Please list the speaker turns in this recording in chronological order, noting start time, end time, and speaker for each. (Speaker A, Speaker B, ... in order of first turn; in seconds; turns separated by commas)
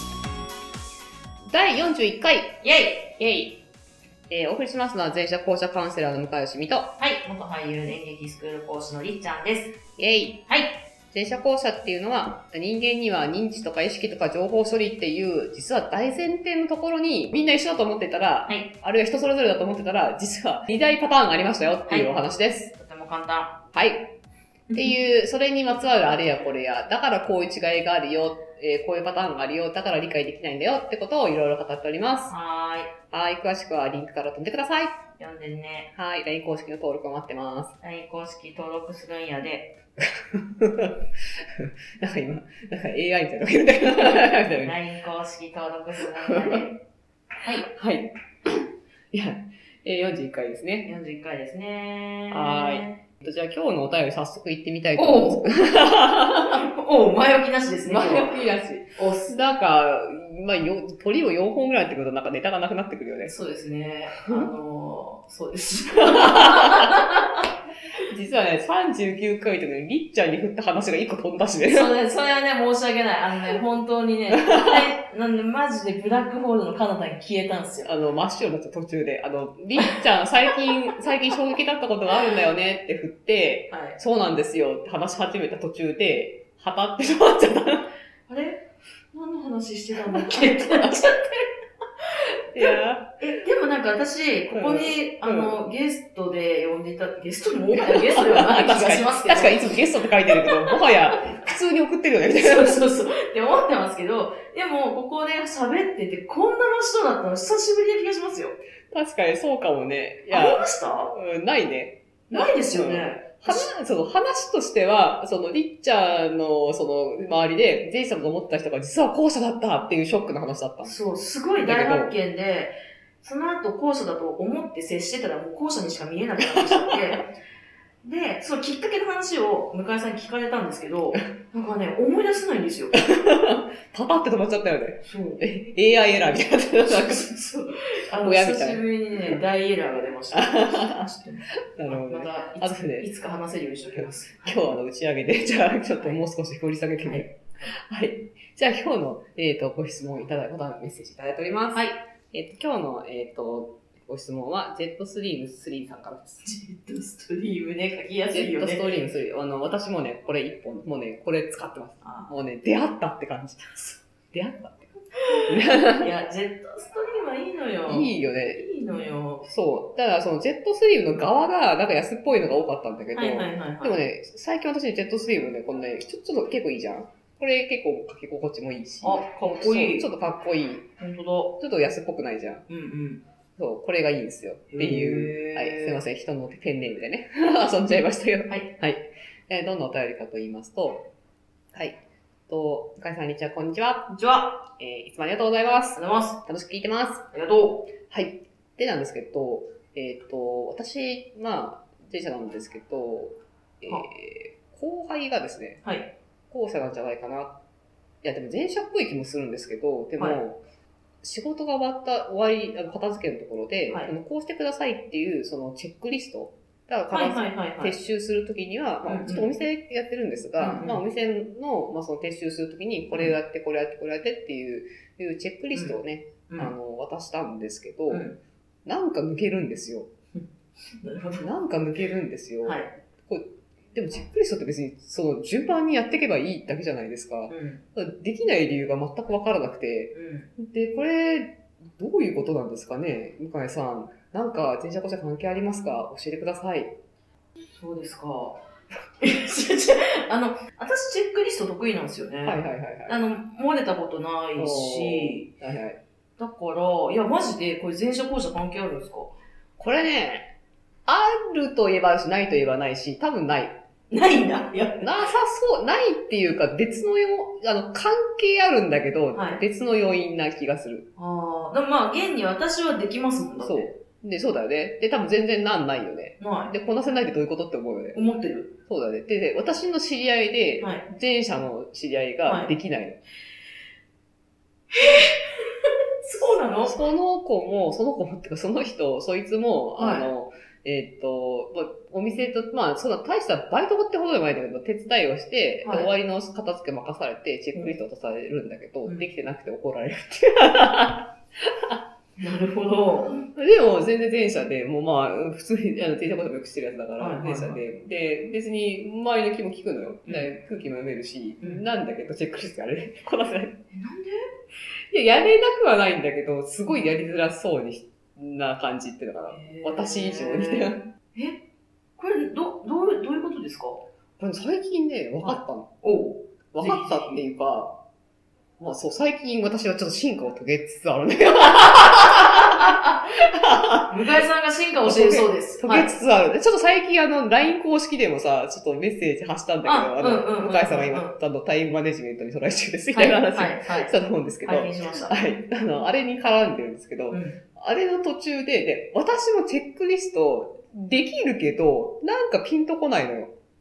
Speaker A: 1.5-2.6, Speaker B: 2.6-3.1, Speaker A: 3.2-3.6, Speaker A: 4.3-7.0, Speaker B: 7.0-9.8, Speaker A: 10.0-10.4, Speaker B: 10.5-10.8, Speaker A: 11.1-22.7, Speaker B: 18.5-18.7, Speaker B: 21.9-22.1, Speaker B: 22.7-23.6, Speaker A: 23.7-24.1, Speaker A: 24.7-32.4, Speaker B: 32.3-32.9, Speaker A: 33.1-35.0, Speaker B: 35.2-35.9, Speaker A: 36.0-37.8, Speaker B: 37.8-39.8, Speaker A: 40.2-44.8, Speaker B: 44.0-46.8, Speaker A: 46.0-46.6, Speaker A: 47.6-48.6, Speaker A: 49.1-50.9, Speaker B: 50.9-53.0, Speaker A: 52.3-56.6, Speaker B: 55.0-55.9, Speaker B: 56.4-58.4, Speaker A: 57.9-63.3, Speaker B: 59.0-59.3, Speaker B: 63.2-67.4, Speaker A: 66.0-67.0, Speaker A: 68.1-72.0, Speaker B: 71.7-77.9, Speaker A: 74.4-74.8, Speaker A: 77.8-87.9, Speaker B: 83.7-84.0, Speaker B: 88.3-91.5, Speaker A: 90.1-91.1, Speaker A: 92.5-93.2, Speaker B: 92.6-101.4, Speaker A: 94.5-95.6, Speaker A: 97.7-102.8, Speaker B: 102.3-108.6, Speaker A: 108.9-121.0, Speaker B: 110.3-111.1, Speaker B: 112.3-113.7, Speaker B: 120.8-127.3, Speaker A: 121.6-122.1, Speaker B: 128.0-133.0, Speaker A: 132.9-137.3, Speaker B: 135.0-135.5, Speaker B: 136.8-144.7, Speaker A: 138.1-139.4, Speaker A: 140.3-141.1, Speaker A: 141.7-143.1, Speaker A: 143.9-156.4, Speaker B: 146.0-146.2, Speaker B: 147.0-147.7, Speaker B: 151.7-152.0, Speaker B: 156.4-158.9, Speaker A: 158.3-164.9, Speaker B: 162.0-162.3, Speaker B: 165.3-169.5, Speaker A: 165.5-166.1, Speaker A: 167.9-168.7, Speaker A: 169.4-180.9, Speaker B: 173.1-174.1, Speaker B: 179.0-180.1, Speaker B: 181.0-181.6, Speaker A: 181.6-182.6, Speaker B: 182.7-183.2, Speaker A: 183.6-191.1, Speaker B: 184.7-186.0, Speaker A: 191.7-192.0, Speaker A: 192.5-197.3, Speaker B: 194.1-194.6, Speaker B: 196.0-196.4, Speaker B: 197.3-197.9, Speaker A: 198.1-205.8, Speaker B: 205.8-206.1, Speaker A: 206.5-207.6, Speaker A: 208.2-210.6, Speaker A: 211.2-228.3, Speaker B: 217.1-218.0, Speaker B: 219.1-219.5, Speaker B: 220.6-221.0, Speaker B: 228.1-228.4, Speaker A: 228.8-230.1, Speaker B: 230.3-231.5, Speaker A: 231.4-246.9, Speaker B: 232.6-232.9, Speaker B: 237.5-237.8, Speaker B: 240.1-240.5, Speaker B: 247.7-248.6, Speaker B: 249.2-255.5, Speaker A: 252.4-253.2, Speaker A: 254.6-256.0, Speaker B: 256.4-259.4, Speaker A: 259.8-260.5, Speaker A: 261.1-263.8, Speaker B: 264.1-265.1, Speaker A: 265.0-271.1, Speaker B: 269.3-269.6, Speaker B: 271.2-273.9, Speaker A: 273.6-278.2, Speaker B: 276.4-276.7, Speaker B: 278.1-278.8, Speaker A: 278.9-283.2, Speaker B: 280.8-281.1, Speaker B: 282.4-282.7, Speaker B: 284.9-287.0, Speaker A: 286.9-302.0, Speaker B: 290.0-290.3, Speaker B: 295.8-296.1, Speaker B: 302.4-303.4, Speaker A: 303.5-313.8, Speaker B: 307.2-307.8, Speaker B: 310.3-310.5, Speaker B: 313.9-314.5, Speaker A: 315.1-321.0, Speaker B: 319.5-321.6, Speaker B: 322.2-324.1, Speaker A: 324.4-325.9, Speaker B: 325.4-327.4, Speaker A: 326.7-328.0, Speaker A: 328.8-334.2, Speaker B: 332.4-333.1, Speaker B: 334.1-336.1, Speaker A: 335.0-353.5, Speaker B: 339.8-341.4, Speaker B: 343.1-344.1, Speaker B: 344.6-345.4, Speaker B: 347.3-347.6